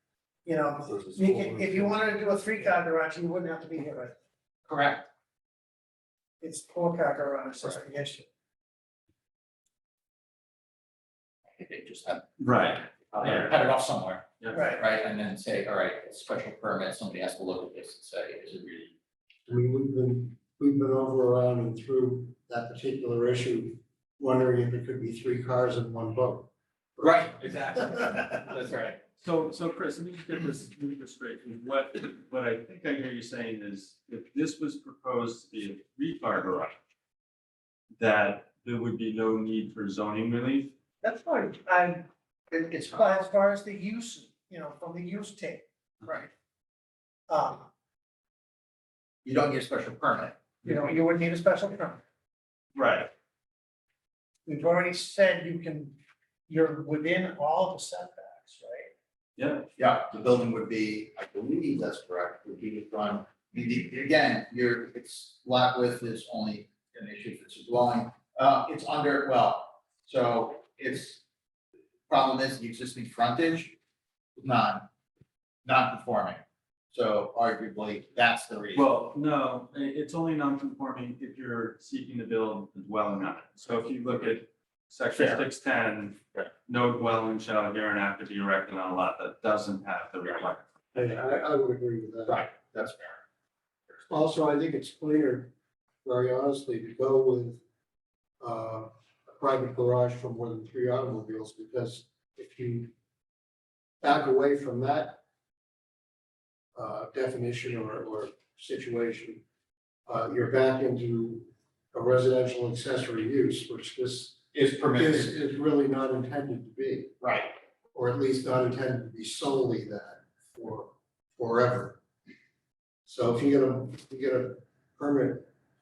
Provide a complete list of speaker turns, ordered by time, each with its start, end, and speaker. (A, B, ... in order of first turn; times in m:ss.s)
0:00.4-0:04.2 A
0:01.1-0:01.5 B
0:04.7-0:05.1 C
0:06.4-0:08.3 A
0:11.6-0:12.3 C
0:12.4-0:13.5 D
0:13.1-0:18.9 C
0:14.4-0:14.7 D
0:14.5-0:14.8 A
0:19.5-0:27.1 B
0:27.0-0:29.0 C
0:29.2-0:36.7 D
0:38.0-0:40.7 D
0:41.0-0:42.1 A
0:42.5-0:43.3 C
0:42.9-0:46.2 A
0:47.3-0:47.7 A
0:49.2-0:50.4 C
0:50.6-0:52.0 A
0:52.8-0:53.1 D
0:54.5-0:56.0 A
0:56.5-0:58.9 A
0:59.4-0:59.7 D
0:59.8-1:11.2 C
1:12.1-1:13.8 C
1:14.4-1:14.9 C
1:15.6-1:16.4 C
1:16.9-1:18.9 C
1:18.7-1:30.6 D
1:25.2-1:25.4 C
1:30.9-1:32.4 B
1:32.3-1:33.2 C
1:34.1-1:35.5 B
1:36.0-1:37.6 B
1:38.4-1:42.9 B
1:44.0-1:45.2 B
1:46.8-1:49.4 B
1:50.1-1:57.2 B
1:54.5-1:55.3 C
1:57.2-1:57.5 C
1:57.9-2:02.0 B
2:03.1-2:05.5 B